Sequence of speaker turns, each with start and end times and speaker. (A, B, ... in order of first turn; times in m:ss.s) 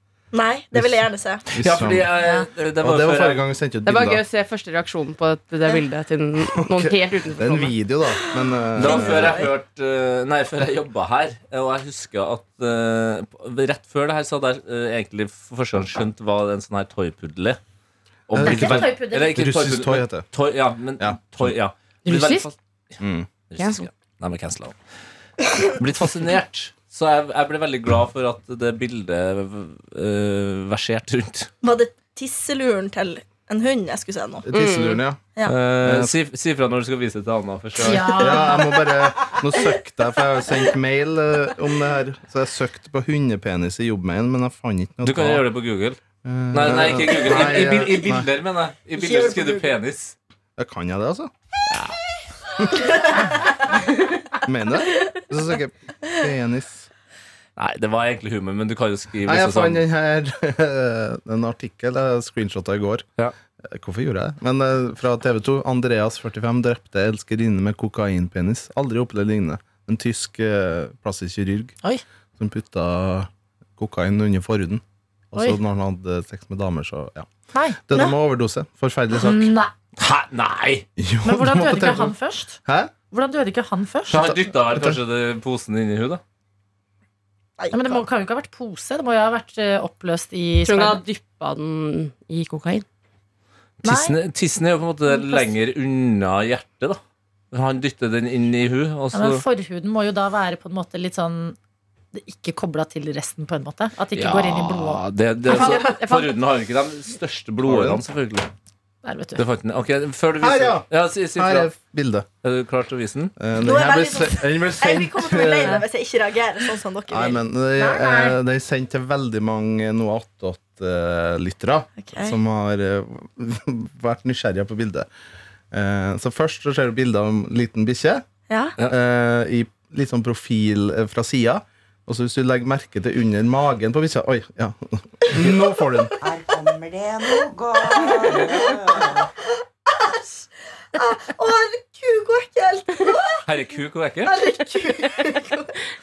0:00.3-0:01.4 A
0:00.7-0:02.2 B
0:01.6-0:03.4 C
0:02.8-0:04.2 B
0:03.8-0:07.7 D
0:06.4-0:09.5 B
0:08.2-0:09.5 A
0:08.8-0:17.6 C
0:18.3-0:22.5 C
0:18.3-0:20.3 B
0:18.4-0:19.4 E
0:21.0-0:21.6 B
0:22.0-0:22.5 D
0:23.0-0:23.3 B
0:23.5-0:24.8 C
0:23.6-0:23.9 D
0:25.7-0:31.5 C
0:31.6-0:34.5 A
0:34.4-0:35.2 B
0:34.5-0:35.0 D
0:35.4-0:38.4 C
0:35.8-0:36.1 B
0:37.8-0:38.6 E
0:38.0-0:45.4 B
0:45.0-0:46.0 C
0:46.2-0:48.3 B
0:46.5-0:50.1 C
0:49.0-0:49.8 A
0:50.6-0:51.3 B
0:51.7-0:51.9 C
0:52.8-0:53.3 A
0:54.4-0:56.9 B
0:57.6-0:59.8 C
0:59.2-1:03.0 B
1:03.6-1:11.7 B
1:12.4-1:17.3 B
1:17.5-1:17.8 E
1:17.8-1:19.5 B
1:19.2-1:19.7 E
1:20.0-1:20.8 C
1:21.0-1:22.1 B
1:21.2-1:22.6 E
1:22.6-1:22.9 B
1:23.1-1:24.3 E
1:24.1-1:26.2 C
1:24.1-1:25.0 B
1:27.6-1:28.0 A
1:27.7-1:31.0 E
1:30.6-1:32.8 D
1:33.8-1:37.0 C
1:33.8-1:34.2 E
1:35.1-1:35.5 E
1:37.5-1:39.4 C
1:39.1-1:41.6 E
1:42.1-1:45.0 E
1:44.1-1:48.5 C
1:45.5-1:46.3 D
1:45.5-1:45.9 A
1:47.6-1:48.0 B
1:49.0-1:49.4 E
1:49.4-1:51.7 C
1:50.4-1:52.3 B
1:52.4-1:53.3 C
1:53.4-1:55.8 B
1:53.6-1:57.4 A
1:57.1-2:05.1 B
1:57.8-1:58.4 E
2:02.0-2:02.4 A
2:05.7-2:08.2 B
2:08.5-2:08.7 A
2:08.8-2:16.1 B
2:16.2-2:19.2 F
2:18.0-2:18.6 A
2:18.4-2:18.8 C
2:19.9-2:23.4 A
2:23.4-2:24.4 C
2:24.2-2:25.8 A